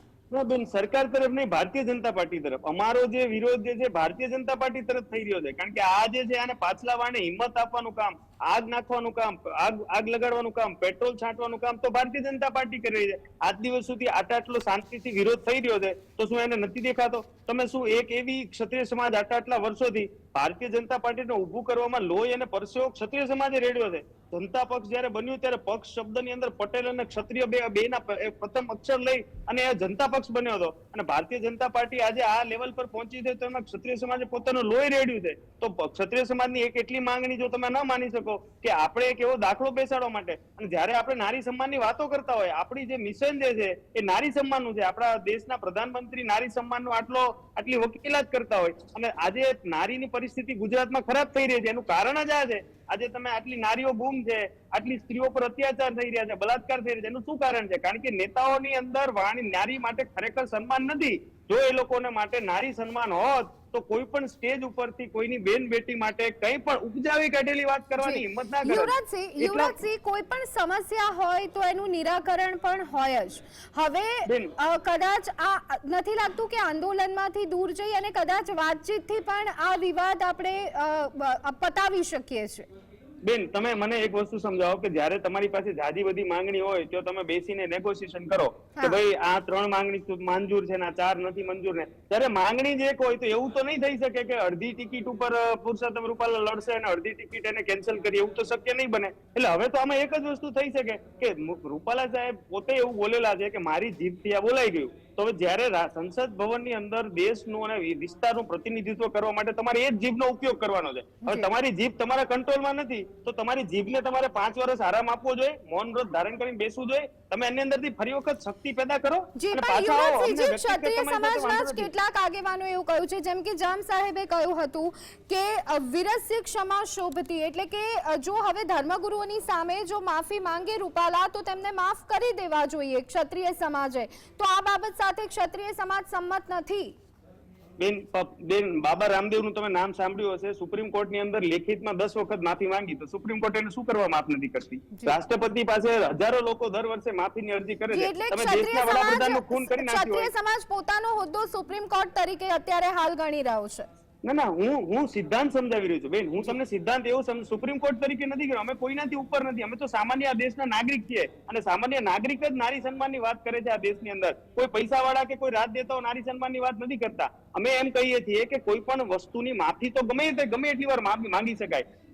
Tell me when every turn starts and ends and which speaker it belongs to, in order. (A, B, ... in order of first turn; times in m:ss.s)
0:00.3-1:09.8 A
1:08.0-1:22.7 B
1:14.3-1:14.5 A
1:23.2-2:01.9 A
1:51.2-1:51.5 B
1:59.4-2:17.0 B
2:17.8-2:30.3 A
2:27.9-2:33.9 B
2:34.2-2:51.8 A